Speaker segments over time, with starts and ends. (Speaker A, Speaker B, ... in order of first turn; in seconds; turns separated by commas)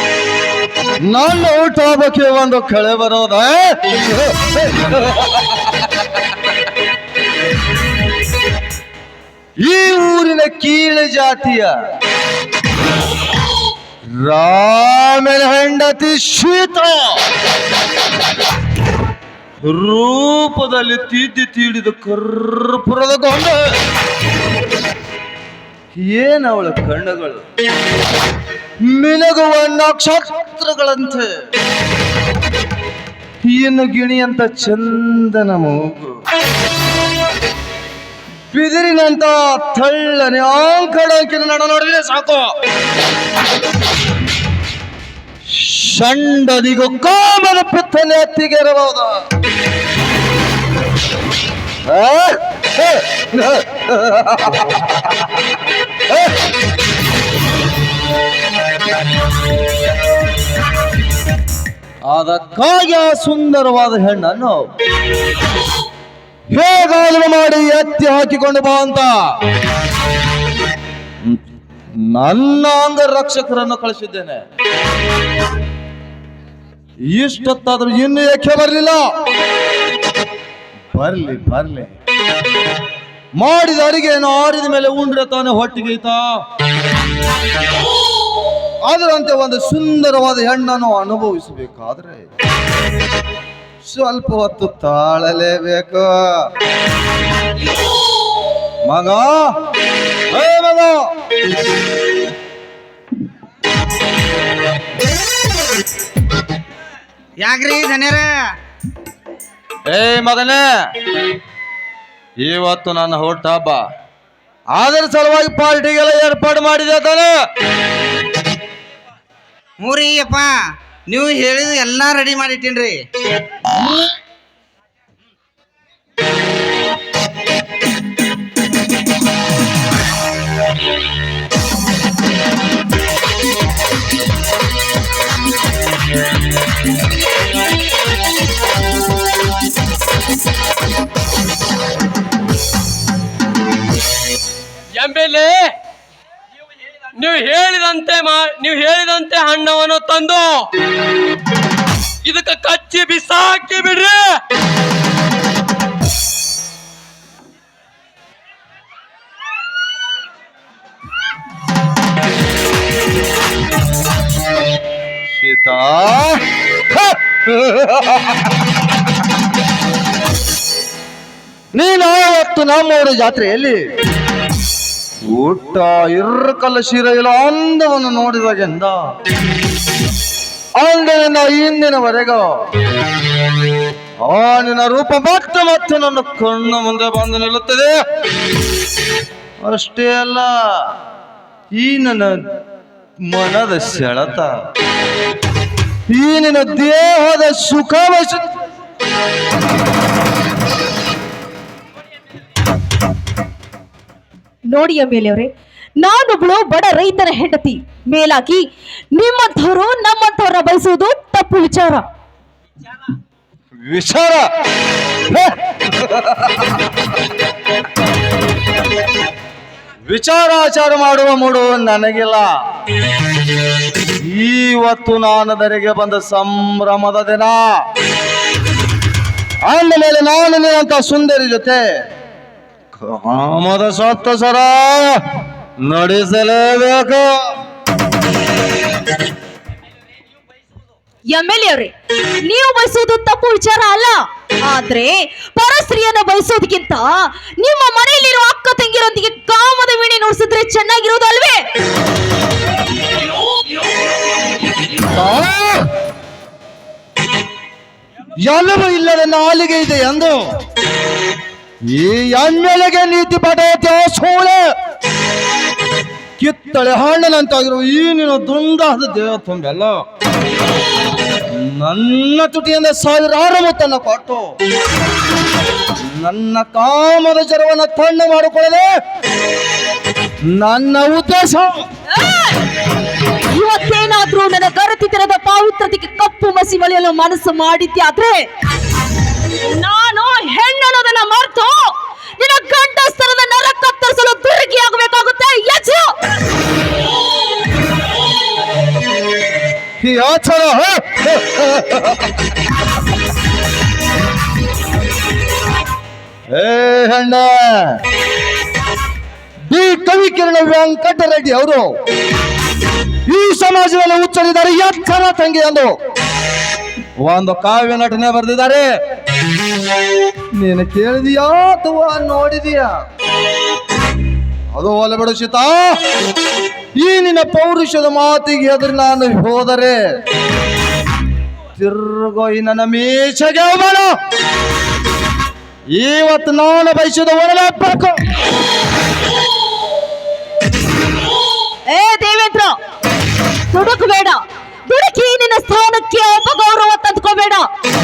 Speaker A: 1.0-5.5, Speaker A: 9.6-11.7, Speaker A: 14.1-17.2, Speaker A: 19.6-23.6, Speaker A: 25.9-27.4, Speaker A: 28.8-31.3, Speaker A: 33.4-36.1, Speaker A: 38.5-42.5, Speaker A: 45.5-49.1, Speaker A: 51.8-54.8, Speaker A: 62.0-64.6, Speaker A: 66.5-69.2, Speaker A: 72.0-74.4, Speaker A: 77.1-79.0, Speaker A: 80.9-81.9, Speaker A: 83.4-86.3, Speaker A: 88.8-92.3, Speaker A: 93.8-96.1, Speaker A: 98.8-99.5, Speaker A: 100.3-101.0, Speaker B: 107.4-108.3, Speaker A: 109.9-110.6, Speaker A: 112.4-113.8, Speaker A: 114.7-117.3, Speaker B: 119.8-120.5, Speaker B: 121.1-123.0, Speaker C: 144.9-145.7, Speaker C: 147.1-150.7, Speaker C: 152.2-154.4, Speaker A: 165.3-168.5, Speaker A: 171.7-173.8, Speaker A: 175.3-179.0, Speaker A: 180.8-182.4, Speaker A: 184.2-187.9, Speaker A: 189.6-190.6, Speaker A: 191.7-192.3, Speaker A: 193.2-194.5, Speaker A: 196.1-198.4, Speaker D: 204.7-212.0, Speaker A: 213.8-214.4, Speaker A: 215.3-216.7, Speaker A: 220.0-222.5, Speaker A: 224.2-227.7, Speaker A: 229.6-231.8, Speaker A: 233.0-235.2, Speaker A: 235.8-237.2, Speaker D: 241.3-251.6, Speaker A: 255.1-255.9, Speaker A: 258.4-260.4, Speaker A: 261.9-264.7, Speaker A: 266.4-270.0, Speaker A: 271.5-274.4, Speaker A: 276.0-278.9, Speaker A: 280.4-281.8, Speaker D: 282.1-282.6, Speaker D: 283.5-288.5, Speaker D: 289.6-296.1, Speaker A: 300.0-302.2, Speaker A: 306.5-308.0, Speaker A: 309.7-311.9, Speaker A: 313.2-315.9, Speaker A: 317.2-318.9, Speaker A: 320.6-322.9, Speaker A: 324.7-325.9, Speaker A: 327.0-330.0, Speaker A: 331.8-334.1, Speaker A: 335.9-338.2, Speaker D: 341.9-342.7, Speaker D: 343.7-347.7